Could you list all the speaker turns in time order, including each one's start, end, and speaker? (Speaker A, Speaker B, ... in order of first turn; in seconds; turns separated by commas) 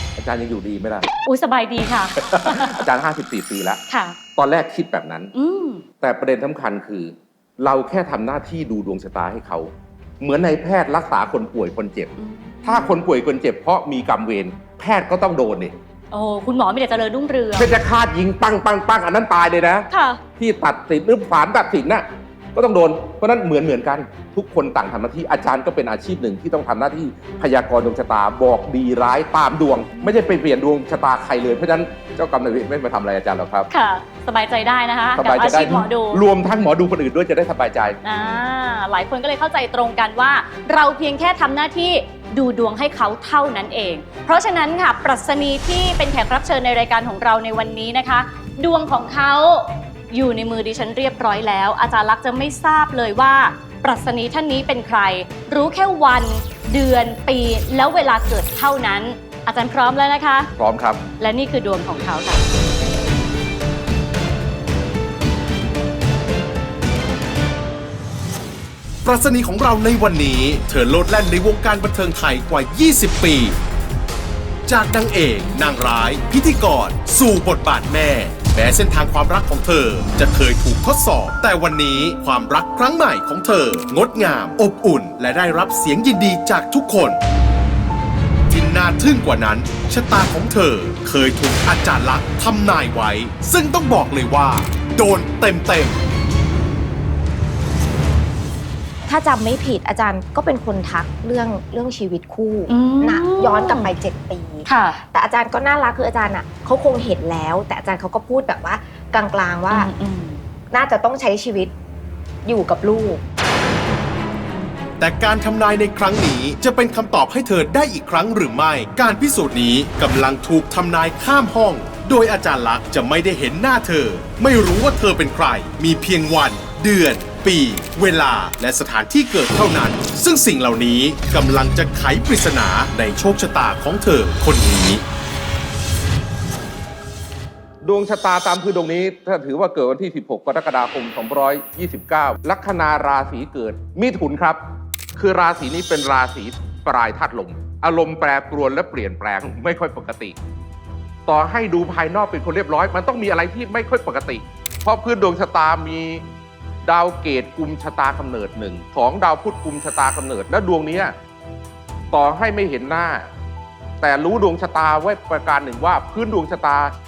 Speaker A: 0.2-1.1, Speaker B: 1.2-2.8, Speaker A: 2.2-3.8, Speaker B: 3.9-4.2, Speaker A: 4.3-5.3, Speaker B: 5.3-5.9, Speaker A: 6.0-15.8, Speaker B: 12.2-12.9, Speaker B: 16.1-17.7, Speaker A: 17.6-19.9, Speaker B: 19.9-20.2, Speaker A: 20.4-33.7, Speaker B: 33.7-36.2, Speaker A: 35.2-38.0, Speaker B: 38.0-60.5, Speaker A: 60.6-61.0, Speaker B: 61.2-62.4, Speaker C: 69.0-73.6, Speaker C: 74.7-87.2, Speaker C: 88.5-96.0, Speaker D: 99.0-109.9, Speaker B: 102.7-103.9, Speaker B: 104.7-105.0, Speaker B: 109.7-110.4, Speaker D: 110.7-111.7, Speaker D: 112.5-113.2, Speaker C: 115.0-135.0, Speaker A: 137.8-144.6, Speaker A: 145.2-150.4, Speaker A: 151.3-156.3, Speaker A: 156.8-161.1, Speaker A: 162.1-163.3, Speaker A: 164.0-166.9